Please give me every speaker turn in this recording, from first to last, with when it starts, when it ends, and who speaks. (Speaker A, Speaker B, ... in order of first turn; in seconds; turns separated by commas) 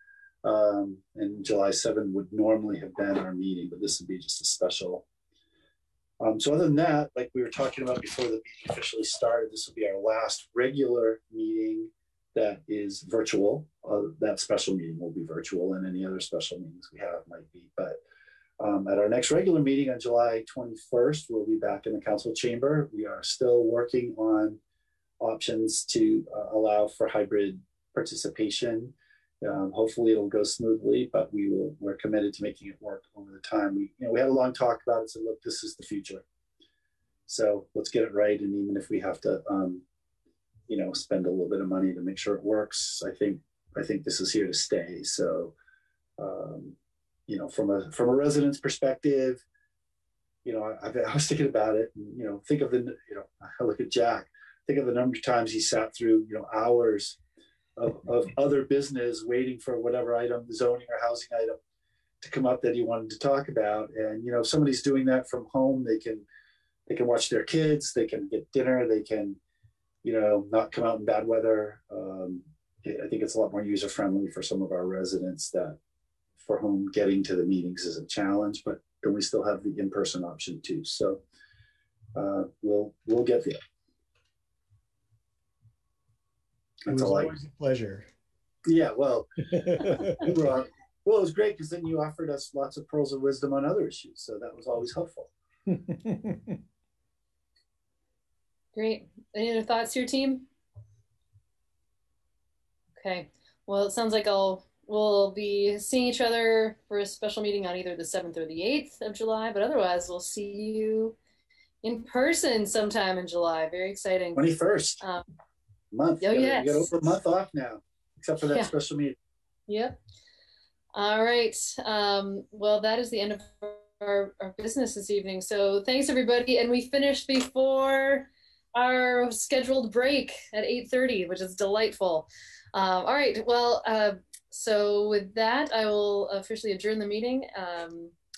Speaker A: 0.4-5.0, Speaker A: 6.2-18.0, Speaker A: 18.6-24.6, Speaker A: 25.2-36.2, Speaker A: 37.3-39.8, Speaker A: 40.7-45.5, Speaker A: 46.2-46.8, Speaker A: 47.3-49.4, Speaker A: 50.4-57.2, Speaker A: 57.8-61.6, Speaker A: 62.2-66.3, Speaker A: 66.9-69.4, Speaker A: 70.0-75.8, Speaker A: 76.4-81.2, Speaker A: 82.1-83.6, Speaker A: 86.8-87.3, Speaker B: 86.9-88.1, Speaker A: 88.6-89.3, Speaker B: 89.6-90.3, Speaker A: 89.9-95.3, Speaker B: 95.7-96.6, Speaker C: 98.7-100.5, Speaker C: 103.0-111.2, Speaker C: 111.8-115.2, Speaker A: 114.3-115.0, Speaker A: 115.9-119.2, Speaker C: 116.2-116.9, Speaker C: 119.7-120.0, Speaker C: 120.9-138.1